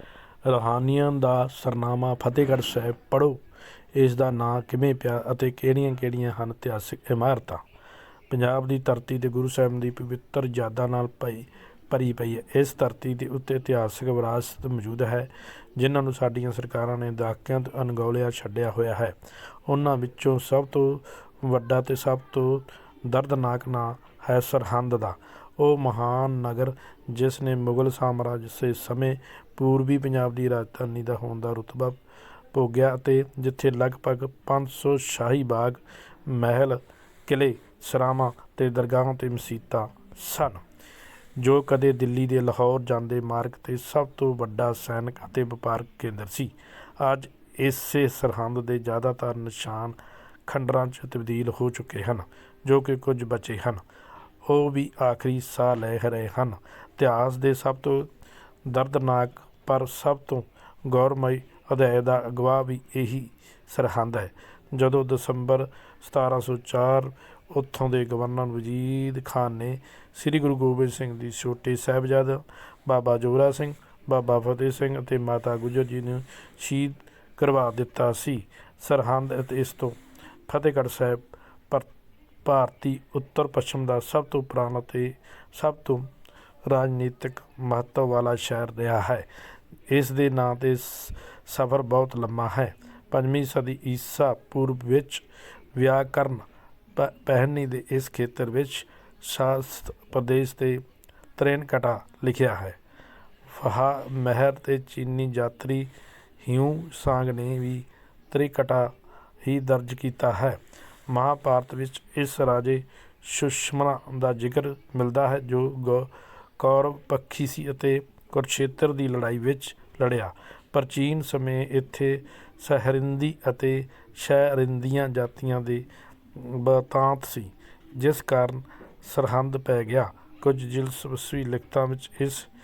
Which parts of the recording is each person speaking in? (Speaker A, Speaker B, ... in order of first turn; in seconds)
Speaker A: 0.4-3.4, 3.9-7.6, 8.3-32.0, 32.5-40.6, 41.4-53.8, 54.4-58.1, 58.6-81.9, 82.4-86.1, 86.6-89.3, 89.9-100.8, 101.3-102.8, 103.5-105.9, 106.4-132.5